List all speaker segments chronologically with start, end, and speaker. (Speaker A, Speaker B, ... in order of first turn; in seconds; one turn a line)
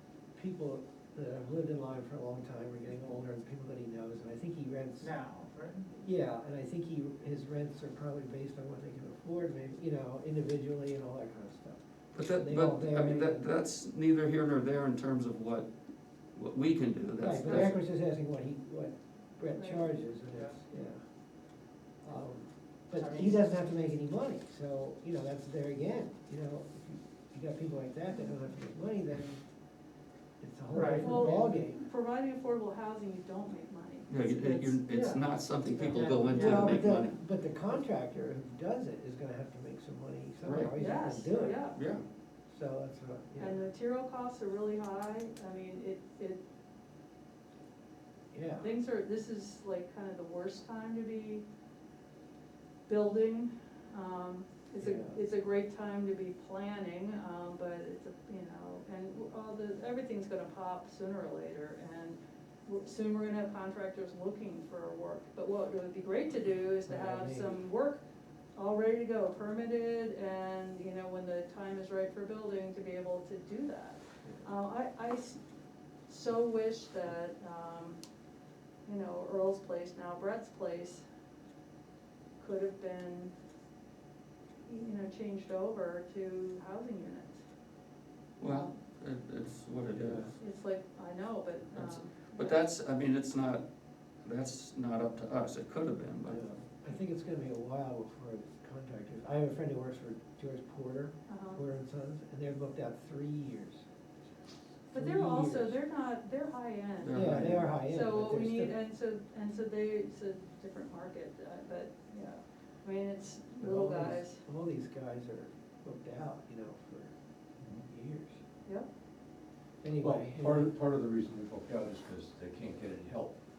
Speaker A: 0.3-5.1
Speaker B: 5.0-5.9
Speaker A: 5.9-13.5
Speaker C: 12.1-15.7
Speaker C: 16.3-17.8
Speaker A: 17.2-21.0
Speaker D: 19.5-19.9
Speaker A: 22.0-29.4
Speaker B: 23.0-23.4
Speaker A: 30.4-31.8
Speaker B: 30.7-31.3
Speaker D: 31.0-34.8
Speaker C: 34.1-37.2
Speaker B: 34.9-36.8
Speaker A: 36.3-41.6
Speaker C: 40.4-40.8
Speaker D: 40.8-41.8
Speaker C: 41.7-42.0
Speaker A: 42.5-43.6
Speaker D: 43.4-46.4
Speaker A: 48.3-48.7
Speaker D: 48.6-51.4
Speaker D: 52.9-68.0
Speaker A: 54.8-55.2
Speaker A: 66.9-67.6
Speaker D: 68.5-75.4
Speaker D: 76.1-78.0
Speaker D: 78.8-81.0
Speaker D: 82.4-83.3
Speaker D: 84.7-87.4
Speaker C: 88.4-90.4
Speaker D: 88.4-88.7
Speaker A: 89.9-90.3
Speaker D: 90.4-92.6
Speaker C: 91.7-93.6
Speaker C: 94.2-96.4
Speaker A: 96.2-103.8
Speaker D: 101.3-101.6
Speaker A: 104.9-105.8
Speaker D: 104.9-114.4
Speaker C: 107.0-107.7
Speaker A: 107.1-108.8
Speaker A: 113.6-117.1
Speaker A: 117.8-118.4
Speaker A: 119.8-120.7
Speaker E: 120.0-123.3